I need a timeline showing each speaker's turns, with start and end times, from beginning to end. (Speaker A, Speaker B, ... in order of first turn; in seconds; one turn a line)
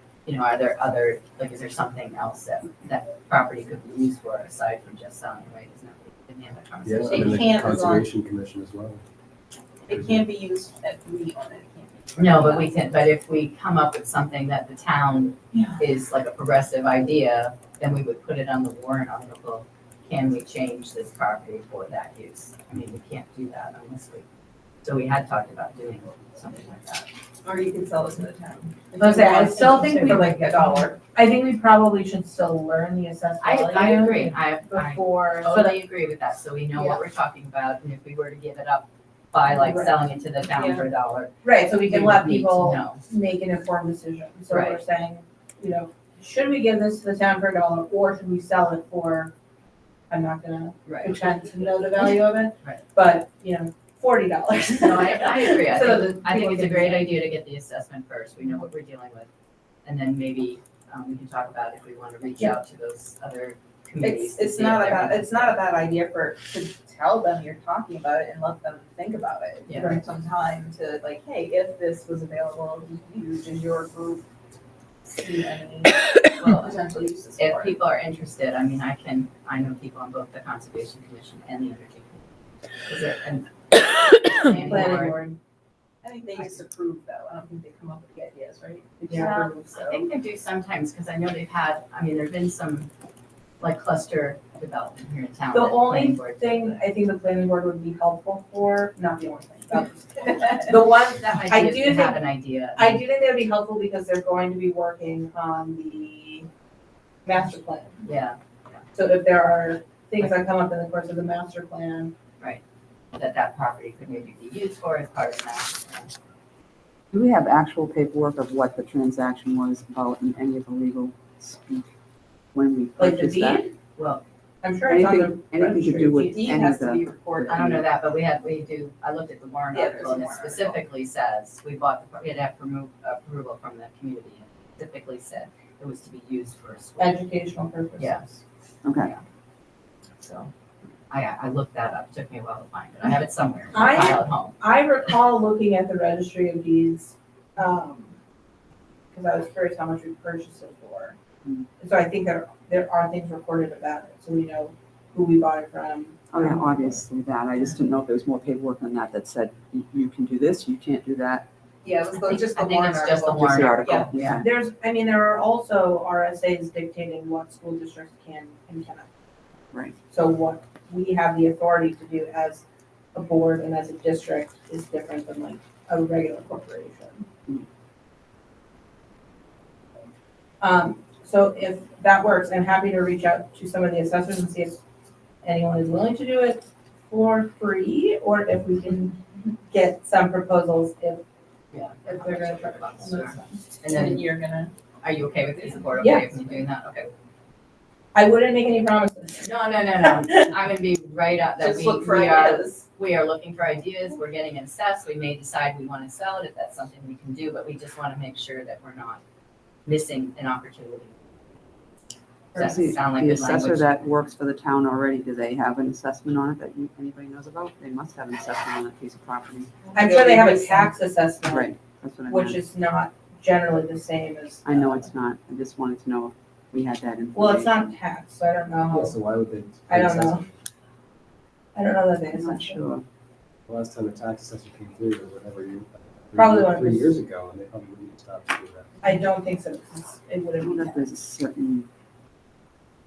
Speaker A: 0.3-7.5
Speaker B: 6.8-9.0
Speaker C: 7.1-8.1
Speaker C: 9.9-12.7
Speaker B: 9.9-10.3
Speaker A: 12.2-24.2
Speaker C: 15.5-15.8
Speaker A: 24.8-27.1
Speaker C: 27.4-30.9
Speaker D: 29.0-35.8
Speaker A: 33.4-43.0
Speaker D: 39.5-40.0
Speaker C: 40.5-40.9
Speaker D: 41.4-49.3
Speaker A: 44.5-44.8
Speaker D: 50.1-57.2
Speaker A: 50.9-51.2
Speaker A: 54.7-59.3
Speaker A: 59.9-65.6
Speaker C: 64.0-74.2
Speaker A: 69.7-70.0
Speaker C: 75.1-77.8
Speaker A: 77.4-82.2
Speaker A: 82.9-85.2
Speaker D: 84.6-85.4
Speaker C: 86.0-90.1
Speaker D: 89.1-89.5
Speaker A: 89.7-92.9
Speaker A: 93.6-96.8
Speaker D: 95.5-102.2
Speaker A: 101.2-103.0
Speaker D: 102.8-106.5
Speaker D: 107.2-108.0
Speaker A: 108.0-108.8
Speaker D: 109.0-112.1
Speaker A: 113.2-116.1
Speaker E: 117.1-121.9
Speaker E: 122.5-123.7
Speaker D: 123.0-123.7
Speaker A: 124.0-124.2
Speaker D: 124.6-126.8
Speaker E: 124.9-127.8
Speaker C: 126.2-127.8
Speaker A: 127.5-137.2
Speaker C: 129.7-130.8
Speaker D: 137.0-138.4
Speaker A: 138.0-138.2
Speaker E: 138.8-139.1
Speaker A: 139.0-139.2
Speaker A: 140.2-140.5
Speaker A: 141.1-144.6
Speaker D: 143.7-148.2
Speaker D: 149.1-151.2
Speaker D: 151.8-157.0
Speaker E: 156.3-161.5
Speaker C: 161.8-164.3
Speaker A: 162.2-164.0
Speaker E: 163.3-164.5
Speaker D: 164.3-169.1
Speaker D: 170.1-177.3
Speaker D: 180.6-184.8
Speaker D: 185.4-191.2
Speaker A: 191.7-194.2
Speaker D: 192.1-193.6
Speaker C: 193.8-194.7
Speaker A: 195.0-197.1
Speaker D: 196.0-196.5
Speaker D: 198.1-199.5
Speaker A: 199.4-209.2
Speaker C: 201.6-202.8
Speaker A: 209.9-211.1
Speaker A: 212.6-214.1
Speaker E: 212.6-219.8
Speaker C: 219.8-220.9
Speaker D: 219.9-221.7
Speaker E: 221.5-222.6
Speaker D: 222.3-225.1
Speaker E: 224.6-227.9
Speaker D: 227.3-229.2
Speaker B: 228.9-230.4
Speaker D: 229.9-230.4
Speaker D: 231.8-232.8
Speaker E: 232.3-233.1
Speaker B: 233.7-239.0
Speaker D: 236.4-237.2
Speaker D: 239.0-241.1
Speaker E: 240.6-241.9